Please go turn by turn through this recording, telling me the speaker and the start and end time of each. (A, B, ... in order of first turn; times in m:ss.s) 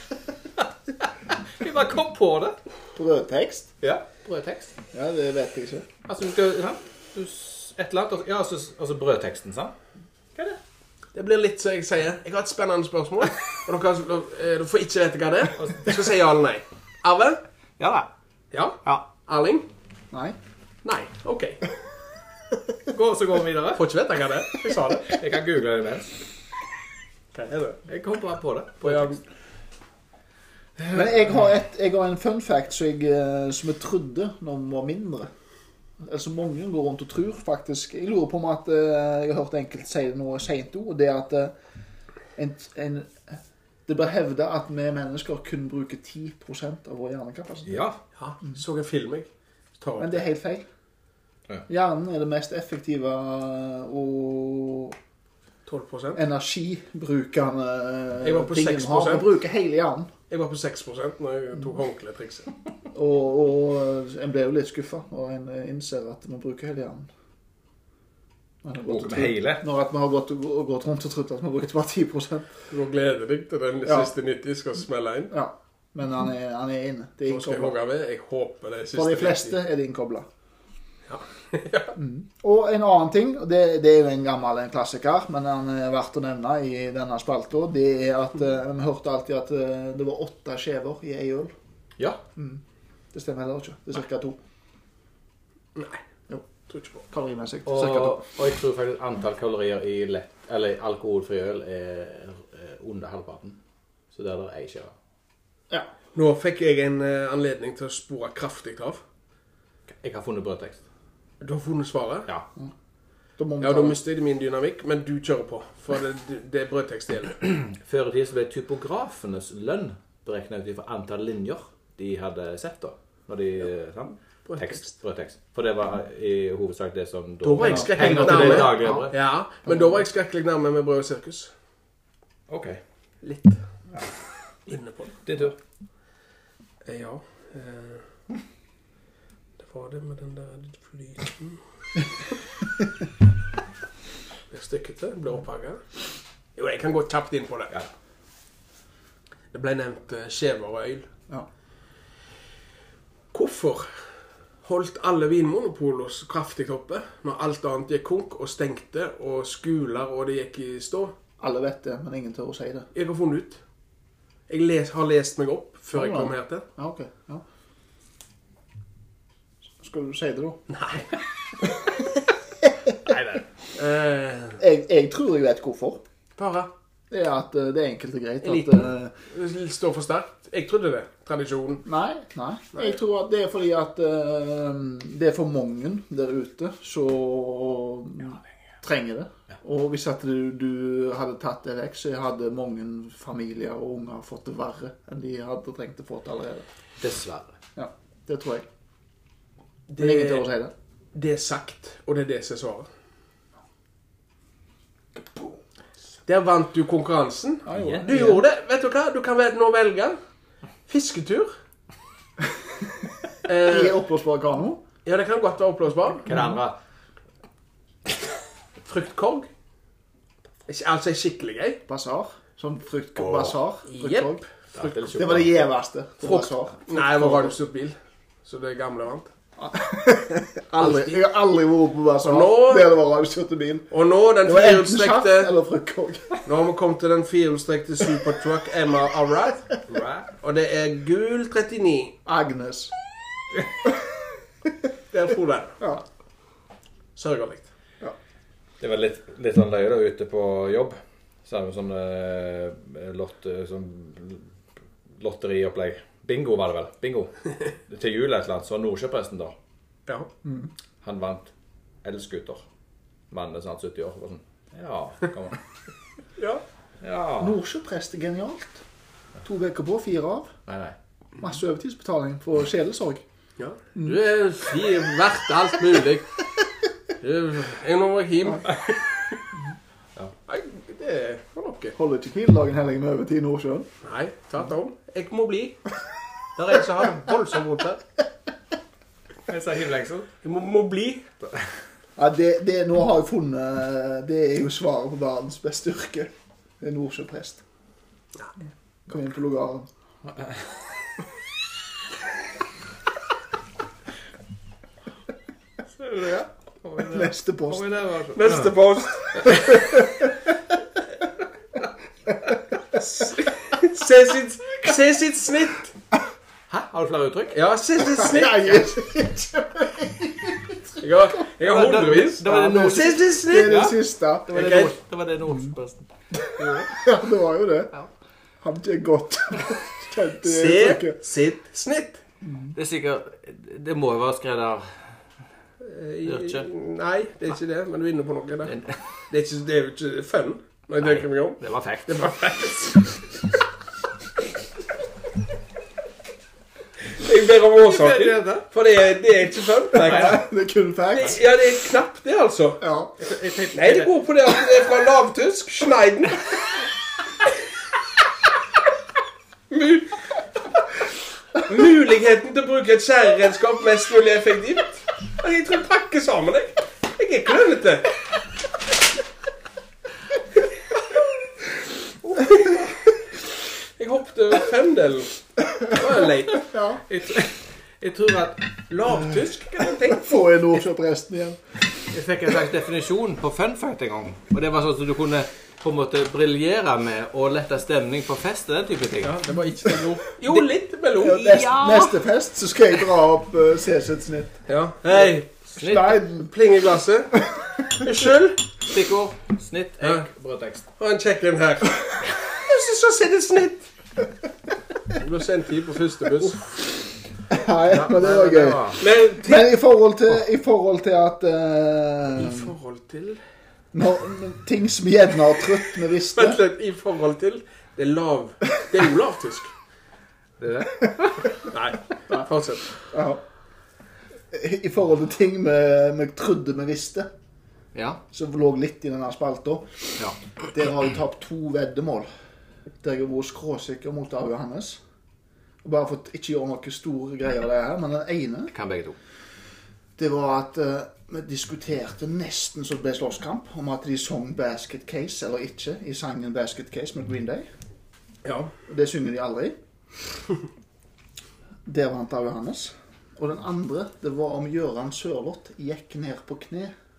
0:00.6-0:02.6 A
0:03.0-0:03.7 B
0:03.8-0:04.7 A
0:04.9-0:05.9 B
0:06.0-0:09.8 A
0:11.1-0:17.4 C
0:15.6-0:16.0 A
0:17.8-0:18.1 A
0:18.5-0:19.7 C
0:20.1-0:20.4 B
0:20.8-0:21.6 C
0:22.9-0:23.9 A
0:23.8-0:25.2 C
0:25.0-0:26.2 A
0:27.3-0:27.8 C
0:27.9-0:29.2 A
0:28.8-0:29.2 C
0:30.9-0:35.3 B
0:36.0-0:41.5 B
0:42.4-0:47.8 B
0:47.7-0:48.0 A
0:48.2-0:50.3 C
0:50.0-0:50.6 B
0:51.7-0:55.0 B
0:55.7-0:56.2 C
0:56.2-1:00.1 B
0:58.2-0:59.3 C
1:00.3-1:02.5 C
1:02.9-1:07.1 B
1:08.6-1:12.5 B
1:08.8-1:09.6 A
1:12.7-1:15.3 C
1:15.3-1:17.8 B
1:17.3-1:19.6 C
1:19.0-1:20.3 B
1:21.1-1:22.0 C
1:22.0-1:31.5 B
1:32.4-1:32.6 B
1:33.1-1:34.4 B
1:35.8-1:36.0 C
1:36.7-1:37.0 C
1:37.0-1:38.2 B
1:37.7-1:43.6 A
1:44.1-1:44.9 A
1:46.2-1:49.0 C
1:49.9-1:50.8 A
1:51.4-1:52.3 C
1:53.4-1:54.0 B
1:53.6-1:57.4 C
1:57.5-2:09.2 A
2:04.5-2:05.0 C
2:07.4-2:11.5 C
2:07.6-2:09.1 B
2:09.7-2:09.9 B
2:12.5-2:12.8 A
2:13.2-2:13.7 C
2:14.7-2:15.2 C
2:15.2-2:15.6 A
2:16.8-2:18.1 C
2:19.6-2:21.6 C
2:24.5-2:25.8 C
2:26.6-2:27.8 C
2:29.5-2:31.1 C
2:33.3-2:34.0 C
2:34.6-2:41.2 C
2:41.4-2:42.9 B
2:42.9-2:43.6 C
2:44.5-2:46.6 C
2:45.9-2:47.4 B
2:49.8-2:50.6 B
2:50.7-2:51.2 C
2:53.1-2:53.4 A
2:53.3-2:54.6 C
2:54.6-2:56.0 B
2:56.4-2:56.7 C
2:57.1-2:59.1 B
2:58.4-3:01.8 C
3:01.8-3:16.7 B
3:17.0-3:17.6 A
3:17.8-3:18.7 B
3:19.9-3:20.5 C
3:20.0-3:20.7 B
3:21.1-3:22.9 C
3:25.2-3:25.6 B
3:26.3-3:30.2 C
3:27.7-3:28.4 B
3:27.7-3:28.1 A
3:30.9-3:31.5 C
3:33.4-3:34.0 C
3:33.6-3:34.8 B
3:35.0-3:36.3 C
3:36.3-3:36.8 A
3:36.3-3:36.6 B
3:38.8-3:39.5 C
3:40.7-3:41.8 C
3:41.9-3:44.4 B
3:43.2-3:43.6 A
3:43.9-3:45.1 C
3:44.7-3:45.6 A
3:45.1-3:47.5 B
3:46.2-3:49.3 C
3:49.6-3:53.9 B
3:50.8-3:51.2 C
3:52.2-3:52.9 C
3:53.9-3:55.5 C
3:54.4-3:56.4 B
3:56.4-3:59.8 C
3:59.9-4:00.3 A
4:00.3-4:02.2 C
4:02.3-4:02.9 B
4:05.1-4:05.8 C
4:07.2-4:07.7 C
4:08.8-4:14.5 A
4:15.2-4:19.6 A
4:20.4-4:20.7 B
4:21.0-4:21.5 A
4:22.0-4:22.6 A
4:23.3-4:25.6 A
4:27.0-4:27.6 A
4:27.4-4:28.8 B
4:29.4-4:30.6 B
4:30.7-4:31.0 A
4:31.4-4:33.2 B
4:33.6-4:36.4 C
4:37.2-4:39.3 C
4:40.5-4:42.0 C
4:42.0-4:43.9 B
4:44.0-4:45.9 C
4:46.6-4:48.0 C
4:49.5-4:50.3 A
4:50.4-4:51.3 C
4:52.2-4:57.6 B
4:59.1-4:59.9 B
5:06.0-5:08.8 A
5:07.0-5:07.8 B
5:08.3-5:09.6 C
5:09.4-5:10.0 A
5:09.5-5:10.2 B
5:12.9-5:15.9 C
5:16.7-5:17.6 A
5:17.5-5:18.9 C
5:18.2-5:21.0 B
5:21.0-5:23.9 C
5:21.6-5:27.0 A
5:22.4-5:24.5 B
5:24.5-5:25.0 C
5:27.0-5:27.9 B
5:28.6-5:31.2 B
5:30.4-5:32.2 C
5:32.4-5:32.7 B
5:32.7-5:35.0 A
5:35.8-5:38.8 C
5:36.3-5:36.7 A
5:38.7-5:39.0 A
5:39.3-5:43.2 C
5:41.0-5:42.4 A
5:47.1-5:50.5 C
5:47.8-5:48.7 A
5:50.0-5:51.4 B
5:50.0-5:50.3 A
5:51.1-5:52.8 C
5:52.8-5:53.1 B
5:53.2-5:54.2 A
5:53.7-5:56.6 C
5:59.7-6:00.2 C
6:01.6-6:08.1 C
6:12.4-6:12.7 A
6:14.0-6:16.7 C
6:16.6-6:17.0 B
6:17.1-6:18.7 A
6:18.9-6:20.4 C
6:20.1-6:21.6 B
6:22.1-6:29.4 A
6:29.2-6:32.1 C
6:31.2-6:34.6 B
6:34.7-6:35.5 C
6:35.1-6:36.5 B
6:35.8-6:36.2 A
6:36.4-6:38.7 C
6:37.4-6:37.7 B
6:38.8-6:40.9 A
6:40.0-6:40.3 C
6:41.0-6:43.9 C
6:45.1-6:46.6 C
6:47.5-6:52.7 B
6:47.9-6:49.0 A
6:49.0-6:49.7 C
6:52.4-6:53.4 C
6:53.9-6:56.6 B
6:56.4-6:59.7 C
7:00.6-7:01.7 A
7:01.7-7:03.0 C
7:03.1-7:03.4 B
7:04.5-7:07.3 B
7:07.9-7:08.2 A
7:08.3-7:10.1 B
7:10.7-7:12.3 B
7:13.0-7:15.0 B
7:15.8-7:18.7 B
7:18.7-7:19.2 A
7:20.2-7:27.7 B
7:28.4-7:28.7 C
7:28.9-7:29.8 B
7:31.8-7:36.9 B